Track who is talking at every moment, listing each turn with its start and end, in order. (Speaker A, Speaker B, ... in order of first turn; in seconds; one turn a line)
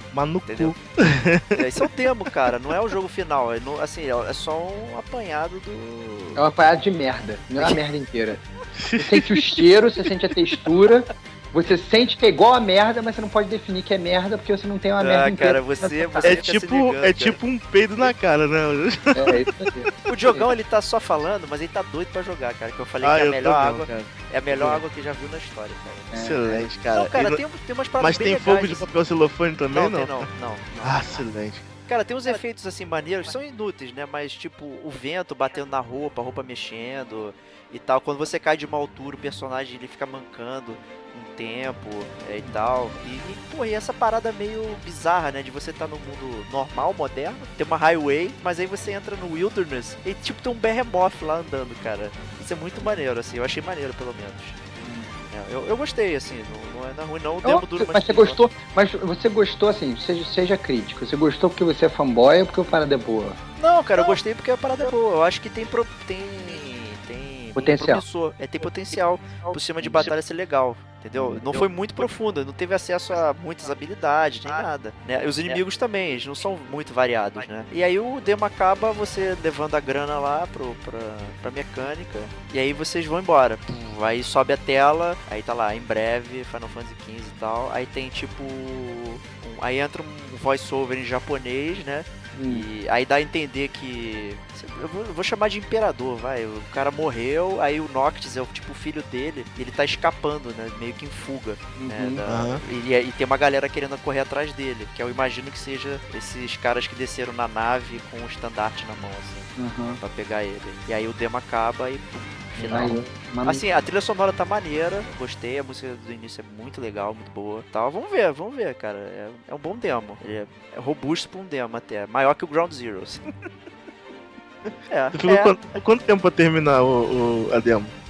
Speaker A: 0.1-1.6
Speaker B: 0.5-0.8
Speaker B: 1.6-6.5
Speaker C: 6.3-8.4
Speaker A: 8.8-9.7
Speaker C: 9.0-16.4
Speaker B: 15.0-17.4
Speaker A: 16.2-19.8
Speaker C: 19.1-20.5
Speaker B: 20.1-26.2
Speaker A: 23.0-24.1
Speaker C: 24.6-24.8
Speaker C: 26.1-26.7
Speaker A: 26.2-27.4
Speaker B: 26.9-28.9
Speaker A: 28.0-30.3
Speaker B: 29.7-31.3
Speaker A: 30.8-31.7
Speaker B: 31.9-54.6
Speaker C: 54.8-55.1
Speaker B: 55.3-58.4
Speaker C: 57.4-63.4
Speaker B: 63.6-109.5
Speaker C: 67.6-68.0
Speaker C: 69.8-70.1
Speaker C: 71.2-71.7
Speaker C: 92.3-92.7
Speaker C: 101.8-102.2
Speaker A: 102.3-102.6
Speaker C: 109.6-110.0
Speaker B: 110.0-123.3
Speaker A: 112.6-112.9
Speaker C: 112.7-113.6
Speaker B: 124.9-125.6
Speaker A: 125.1-127.9